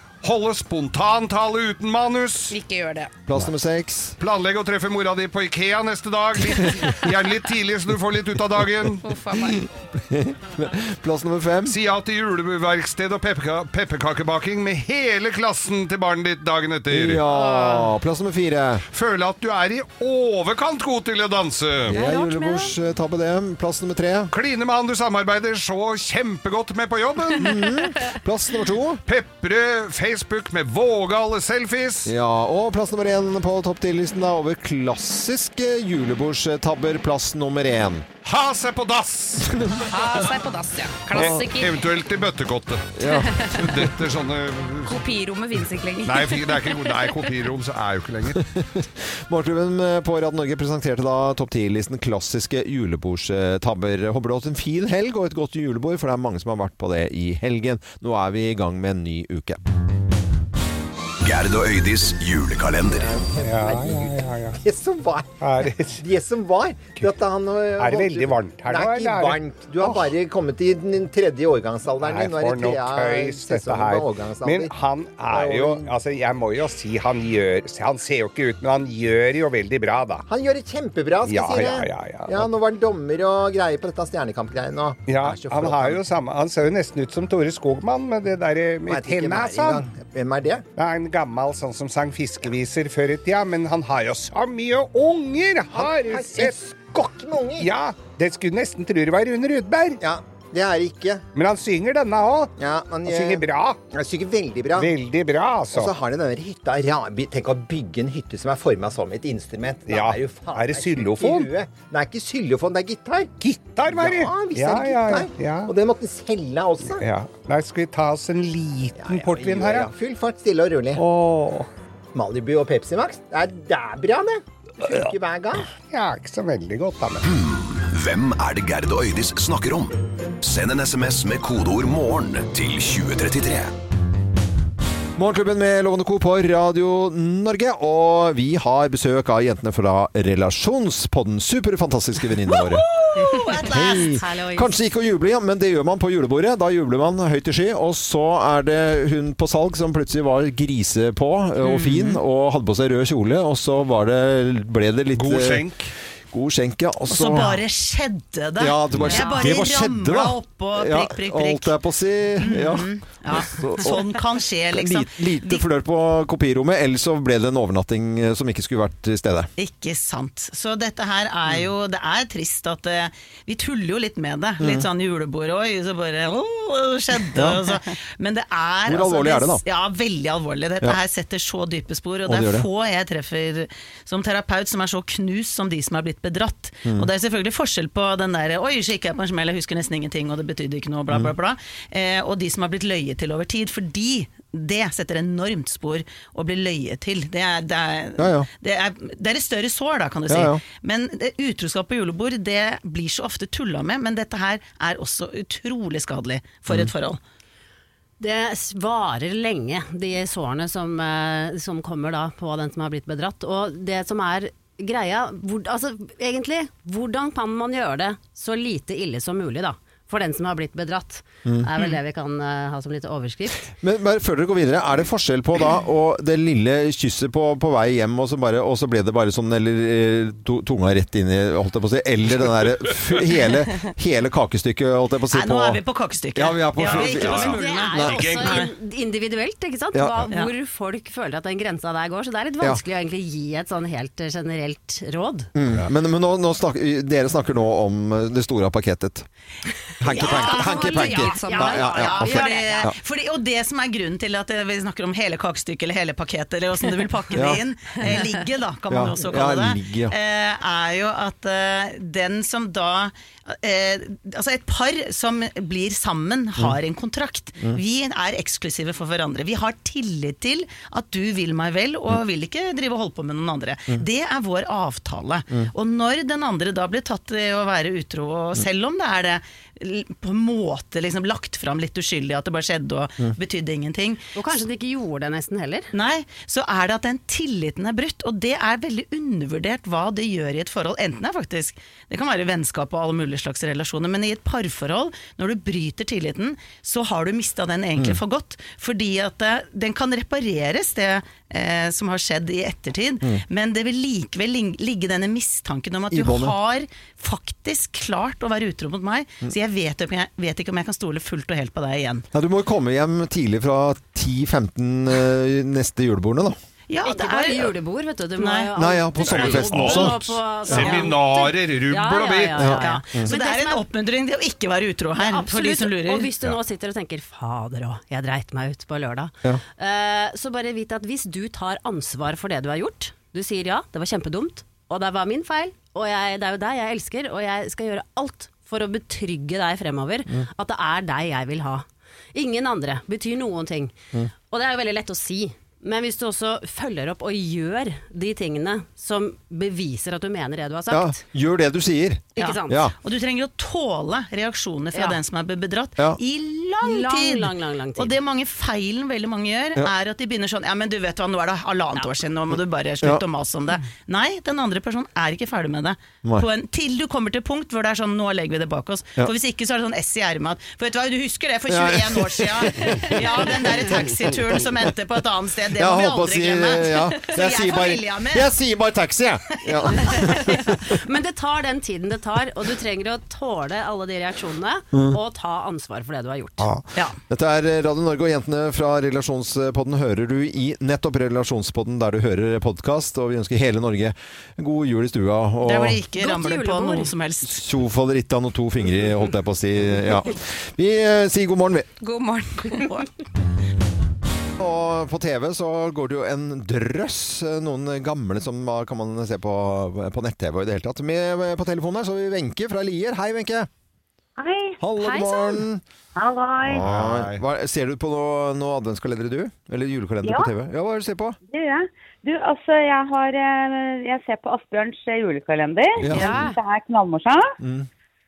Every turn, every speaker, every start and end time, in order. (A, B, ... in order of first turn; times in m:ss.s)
0:00.2-0:02.6 A
0:02.5-0:03.1 B
0:03.3-0:04.2 C
0:04.2-0:09.1 A
0:09.0-0:09.6 B
0:09.3-0:11.8 C
0:11.7-0:17.2 A
0:16.9-0:18.8 C
0:17.3-0:17.9 B
0:18.9-0:22.0 A
0:21.9-0:24.3 C
0:21.9-0:22.8 B
0:24.3-0:27.7 A
0:27.4-0:29.0 C
0:29.1-0:32.1 A
0:32.0-0:38.1 C
0:38.2-0:39.6 A
0:39.8-0:41.8 B
0:41.1-0:45.1 A
0:41.1-0:41.4 C
0:43.0-0:43.4 C
0:43.1-0:43.7 B
0:44.9-0:47.3 B
0:46.0-0:48.5 A
0:48.6-0:59.6 C
1:01.2-1:03.1 D
1:03.0-1:05.4 E
1:03.4-1:04.6 F
1:05.4-1:06.0 F
1:06.0-1:14.7 E
1:07.8-1:10.1 F
1:12.0-1:20.2 F
1:15.3-1:15.9 E
1:20.3-1:26.0 E
1:21.2-1:22.5 F
1:25.1-1:29.9 F
1:28.9-1:30.7 E
1:30.8-1:36.6 F
1:35.7-1:37.7 E
1:37.6-1:40.0 F
1:40.0-1:41.2 E
1:41.4-1:42.5 F
1:42.6-1:44.9 E
1:43.0-1:43.8 F
1:44.8-1:45.9 F
1:45.7-1:53.4 E
1:49.9-1:51.5 F
1:53.4-1:55.7 F
1:53.9-1:57.1 E
1:56.8-1:59.9 F
1:59.0-2:01.0 E
2:01.0-2:01.7 F
2:02.1-2:05.7 E
2:04.8-2:05.1 F
2:05.8-2:07.2 F
2:07.2-2:13.7 D
2:15.2-2:22.9 C
2:22.7-2:24.1 G
2:23.2-2:24.7 H
2:23.4-2:35.6 C
2:35.1-2:35.9 A
2:36.3-2:37.6 C
2:37.1-2:41.8 G
2:38.6-2:49.5 C
2:38.9-2:39.2 A
2:39.1-2:39.5 B
2:42.4-2:45.7 G
2:49.6-3:27.2 G
2:54.6-2:54.9 C
2:57.3-2:57.6 C
2:58.9-2:59.6 C
3:02.3-3:02.7 C
3:18.2-3:18.5 C
3:20.3-3:20.6 C
3:28.2-3:43.6 H
3:43.8-3:55.8 C
3:55.3-3:58.6 G
3:56.4-3:58.2 C
3:56.8-3:58.7 A
3:57.4-4:05.5 H
3:59.9-4:00.3 C
4:05.6-4:09.3 C
4:10.0-4:13.0 C
4:10.1-4:12.7 B
4:10.3-4:44.2 G
4:10.8-4:12.5 H
4:17.4-4:17.6 C
4:18.9-4:20.2 C
4:44.4-4:45.9 H
4:45.9-5:12.2 G
5:06.1-5:06.6 C
5:12.3-5:16.6 C
5:16.9-5:17.7 G
5:17.0-5:23.8 H
5:18.4-5:18.7 G
5:18.8-5:20.9 C
5:19.2-5:22.8 A
5:20.8-5:21.1 G
5:22.6-5:23.3 C
5:22.8-5:26.3 G
5:25.2-5:51.2 H
5:50.9-5:52.9 C
5:52.4-5:52.9 H
5:52.4-6:18.5 G
5:56.8-5:58.2 H
6:11.7-6:13.1 C
6:15.8-6:21.0 C
6:20.2-6:26.7 H
6:24.9-6:25.2 C
6:26.6-6:36.0 C
6:35.6-6:37.6 G
6:36.2-6:37.1 H
6:37.4-6:41.9 C
6:42.0-6:43.1 B
6:44.6-6:53.7 C
6:54.4-6:54.8 I
6:54.8-6:55.8 C
6:55.0-6:55.6 B
6:56.2-6:56.8 I
6:56.6-7:01.4 C
6:56.8-6:57.4 A
7:00.2-7:00.5 I
7:01.5-7:07.5 I
7:06.0-7:06.4 C
7:06.1-7:06.6 B
7:07.6-7:07.9 C